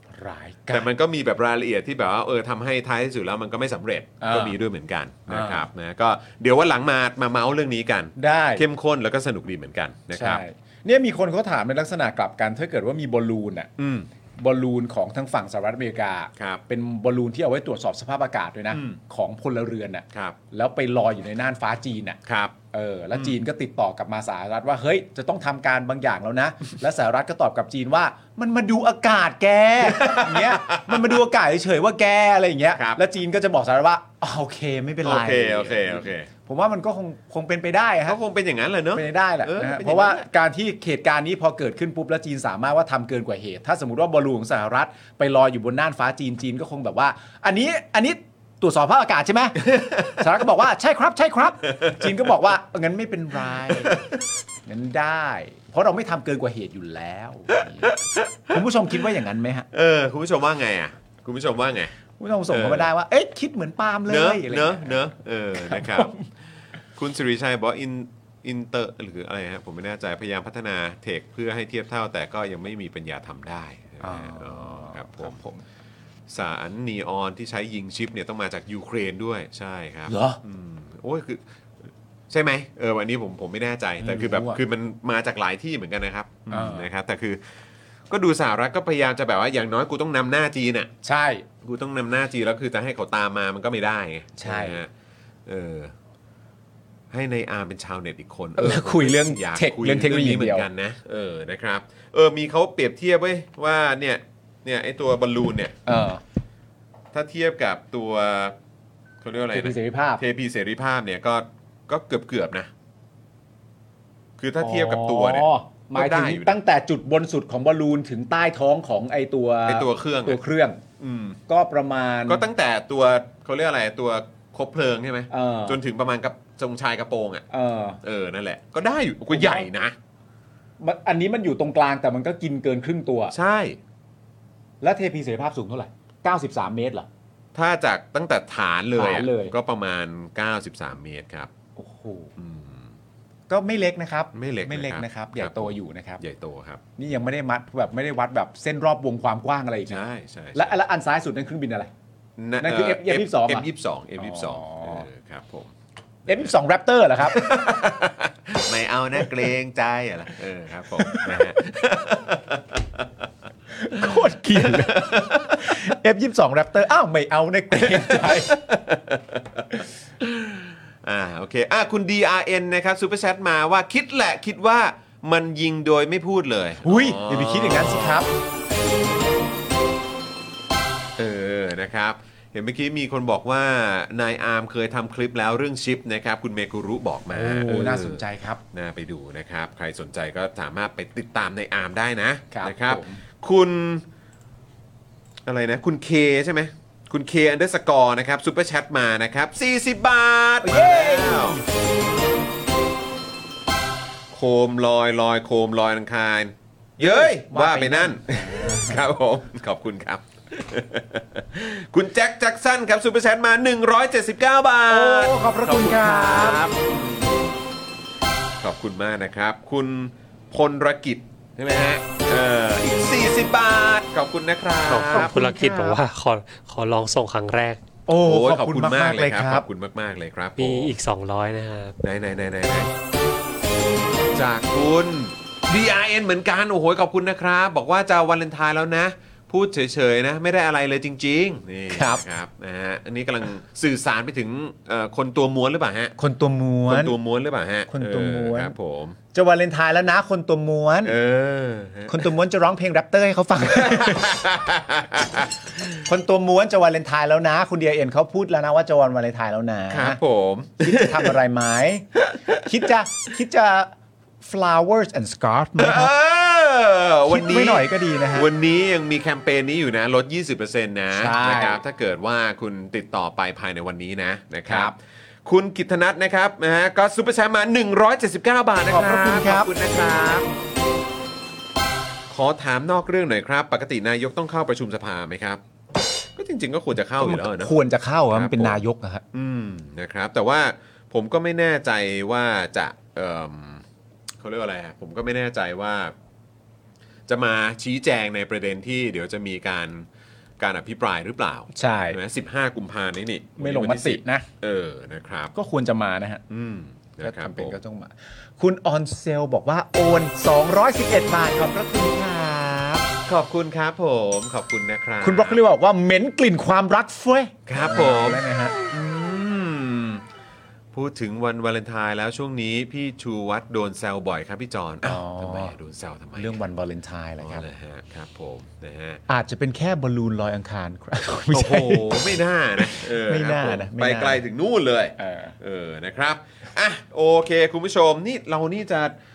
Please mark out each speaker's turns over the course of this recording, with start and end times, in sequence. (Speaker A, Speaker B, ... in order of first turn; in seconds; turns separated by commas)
Speaker A: 0.1-0.9, Speaker B: 0.7-10.4, Speaker A: 4.2-4.5, Speaker A: 5.3-5.6, Speaker A: 8.2-8.6, Speaker A: 10.1-13.7, Speaker B: 13.8-14.1, Speaker A: 14.4-22.2, Speaker B: 18.7-19.0, Speaker B: 22.2-22.5, Speaker A: 22.7-38.2, Speaker B: 29.8-31.2, Speaker B: 32.7-33.0, Speaker B: 35.0-36.3, Speaker B: 38.0-40.2, Speaker A: 38.9-54.0, Speaker B: 49.6-50.2, Speaker A: 54.6-57.9, Speaker B: 57.5-58.5, Speaker A: 58.5-59.7, Speaker B: 59.7-61.9, Speaker A: 62.2-66.2, Speaker B: 62.5-62.9, Speaker B: 64.1-66.1, Speaker B: 67.0-75.4, Speaker A: 74.0-75.6, Speaker B: 76.3-81.4, Speaker A: 80.1-80.4, Speaker B: 82.3-87.4, Speaker A: 84.0-84.6, Speaker A: 86.5-86.9, Speaker B: 88.1-90.9, Speaker A: 91.0-91.5, Speaker B: 91.6-94.9, Speaker A: 94.4-94.8, Speaker B: 95.5-95.9, Speaker B: 97.1-105.7, Speaker A: 98.6-100.7, Speaker A: 105.8-106.2, Speaker B: 107.1-108.5, Speaker B: 109.2-112.7, Speaker A: 109.5-110.2, Speaker B: 114.4-116.5, Speaker A: 114.6-120.8, Speaker B: 119.7-120.4, Speaker B: 121.0-121.4, Speaker A: 121.5-122.4, Speaker B: 122.3-127.4, Speaker A: 125.3-125.8, Speaker A: 127.5-128.0, Speaker B: 128.0-129.9, Speaker A: 129.3-129.7, Speaker A: 130.8-133.3, Speaker B: 133.3-133.8, Speaker A: 134.8-137.1, Speaker B: 137.5-141.5, Speaker A: 138.9-139.5, Speaker A: 141.8-142.3, Speaker B: 142.4-142.9, Speaker A: 143.5-146.2, Speaker B: 144.3-146.8, Speaker A: 147.0-150.0, Speaker B: 149.9-150.7, Speaker A: 150.5-151.9, Speaker B: 152.4-155.7, Speaker A: 152.6-153.7, Speaker A: 154.2-155.1, Speaker A: 156.3-157.7, Speaker B: 157.2-163.1, Speaker A: 160.9-161.5, Speaker A: 163.7-168.6, Speaker B: 164.6-165.8, Speaker B: 167.8-178.2, Speaker A: 176.8-178.3, Speaker B: 181.2-194.0, Speaker A: 187.3-188.6, Speaker A: 192.5-193.2, Speaker B: 195.4-201.6, Speaker A: 200.6-201.6, Speaker B: 204.3-217.5, Speaker A: 207.0-209.1, Speaker A: 214.9-216.6, Speaker B: 218.6-225.4, Speaker C: 224.9-227.8, Speaker A: 225.1-226.0, Speaker A: 228.1-229.6, Speaker B: 228.2-230.9, Speaker C: 230.6-231.9, Speaker B: 232.0-232.9, Speaker B: 234.3-246.1, Speaker A: 241.9-242.2, Speaker A: 246.2-247.1, Speaker B: 246.9-249.2, Speaker A: 247.9-248.7, Speaker A: 249.3-251.2, Speaker B: 251.0-252.3, Speaker A: 252.1-254.3, Speaker B: 253.7-256.0, Speaker A: 256.0-260.2, Speaker B: 259.9-261.3, Speaker A: 260.8-263.9, Speaker A: 264.4-266.1, Speaker B: 265.8-280.5, Speaker A: 267.3-268.5, Speaker A: 271.1-271.8, Speaker A: 274.7-274.9, Speaker A: 278.9-279.7, Speaker B: 282.3-285.6, Speaker B: 286.4-287.8, Speaker A: 287.2-289.2, Speaker B: 288.3-288.8, Speaker B: 289.3-293.8, Speaker B: 294.4-296.1, Speaker B: 297.3-300.0, Speaker B: 300.6-305.5, Speaker A: 301.7-302.2, Speaker A: 303.6-304.5, Speaker A: 305.5-306.4, Speaker B: 306.5-307.7, Speaker A: 307.2-313.1, Speaker B: 313.2-315.6, Speaker A: 315.2-318.8, Speaker B: 317.7-320.2, Speaker B: 320.9-326.6, Speaker A: 325.0-325.7, Speaker A: 326.3-327.6, Speaker B: 327.4-329.2, Speaker A: 329.3-334.4, Speaker B: 331.5-339.1, Speaker A: 335.2-335.6